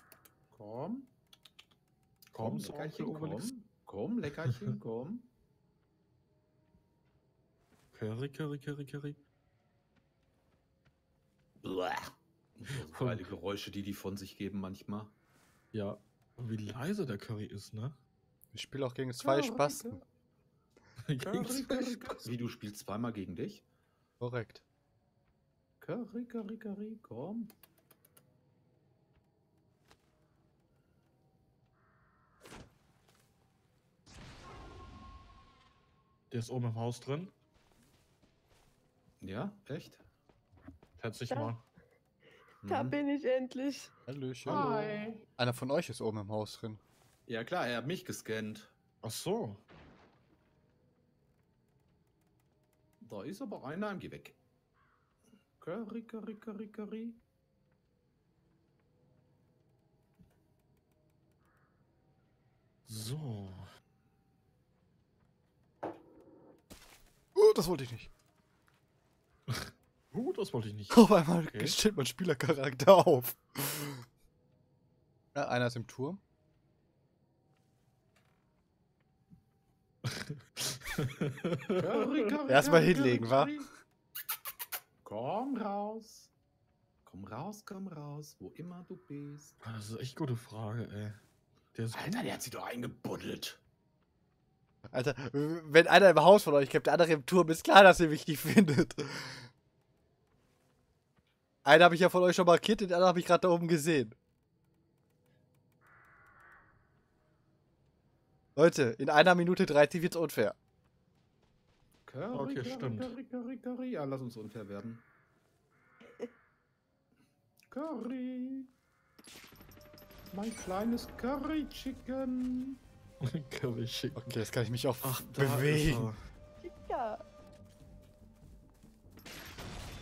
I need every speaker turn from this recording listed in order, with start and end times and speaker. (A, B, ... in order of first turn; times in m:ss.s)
0:00.5-0:01.1 A
0:02.3-0:03.5 B
0:02.4-0:05.3 A
0:07.9-0:09.2 B
0:11.6-0:15.2 A
0:12.8-0:13.3 B
0:15.7-0:18.0 B
0:18.5-0:20.0 C
0:19.2-0:20.0 A
0:21.1-0:22.2 B
0:21.2-0:23.6 A
0:24.2-0:24.6 C
0:25.8-0:27.5 A
0:36.3-0:37.3 B
0:39.2-0:40.0 A
0:41.0-0:41.6 B
0:42.6-0:43.0 A
0:42.6-0:43.9 D
0:44.1-0:44.7 C
0:44.4-0:45.2 A
0:45.4-0:46.8 C
0:47.3-0:48.7 A
0:49.0-0:49.6 B
0:53.0-0:54.4 A
0:55.6-0:57.2 A
1:02.9-1:03.7 B
1:07.4-1:08.1 C
1:09.5-1:11.8 B
1:10.9-1:14.0 C
1:15.3-1:16.2 C
1:20.0-1:21.9 B
1:21.8-1:23.7 A
1:22.5-1:23.6 C
1:25.0-1:26.3 A
1:27.1-1:29.6 A
1:29.6-1:31.2 B
1:31.7-1:32.4 B
1:31.9-1:33.6 A
1:34.9-1:39.5 C
1:41.6-1:44.2 C
1:48.6-1:50.6 C
1:52.1-1:55.0 A
1:52.3-1:53.1 B
1:57.7-1:58.7 A
2:00.3-2:02.8 A
2:03.2-2:04.4 B
2:04.2-2:06.1 C
2:05.0-2:06.2 B
2:06.6-2:07.2 D